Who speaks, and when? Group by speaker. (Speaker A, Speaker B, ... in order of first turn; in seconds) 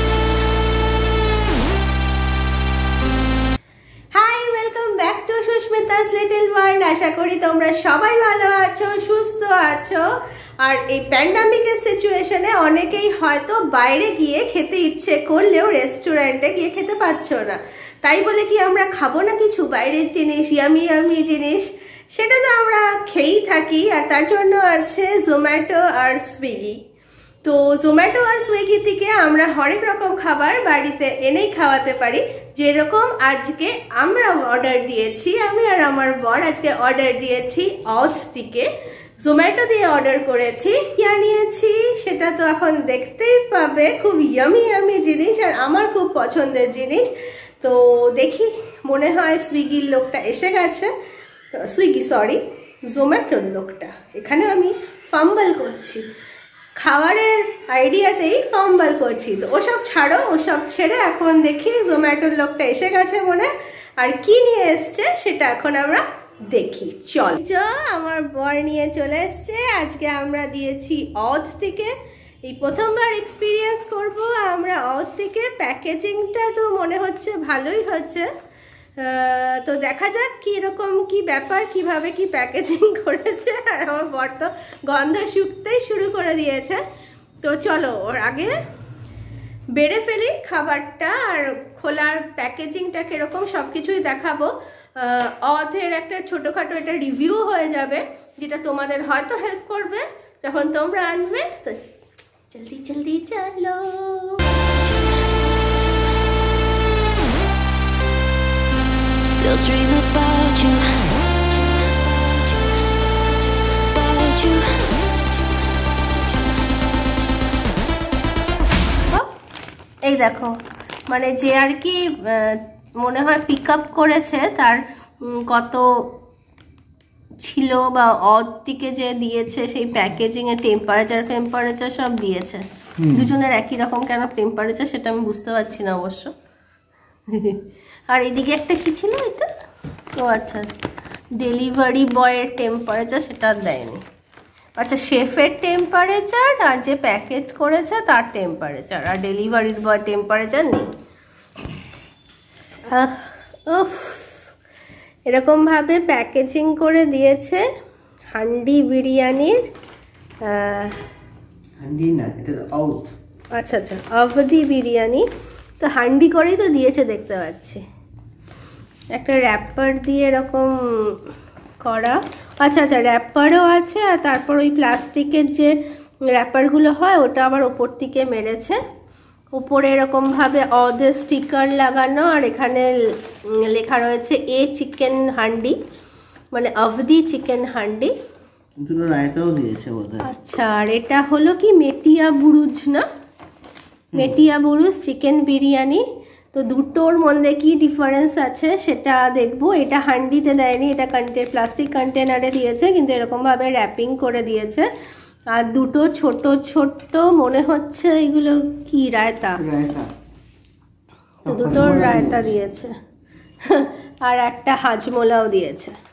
Speaker A: 4.1-10.0, 10.6-26.8, 27.4-38.7, 39.2-47.1, 47.6-50.9, 51.6-56.0, 56.8-71.9, 72.5-78.3, 79.0-86.8, 87.4-88.5, 89.8-101.8, 102.5-104.4, 120.1-120.5, 121.1-124.8, 125.5-125.8, 127.4-132.6, 133.1-136.3, 137.3-139.5, 140.1-140.8, 141.4-144.0, 144.8-150.9, 152.9-154.3, 155.3-157.6, 158.3-159.6, 160.4-161.0, 163.6-165.2, 165.8-167.8, 169.2-171.2, 171.8-175.7, 176.3-178.8, 179.6-182.9, 183.7-185.8, 186.5-188.1, 190.2-193.0, 194.2-196.0, 196.5-204.9, 205.5-209.6, 211.5-212.9, 213.7-215.9
Speaker B: 109.2-111.2, 112.0-112.8, 113.7-115.0
Speaker C: 133.0-133.3, 161.8-163.1, 188.8-190.3, 209.6-210.1, 211.4-212.5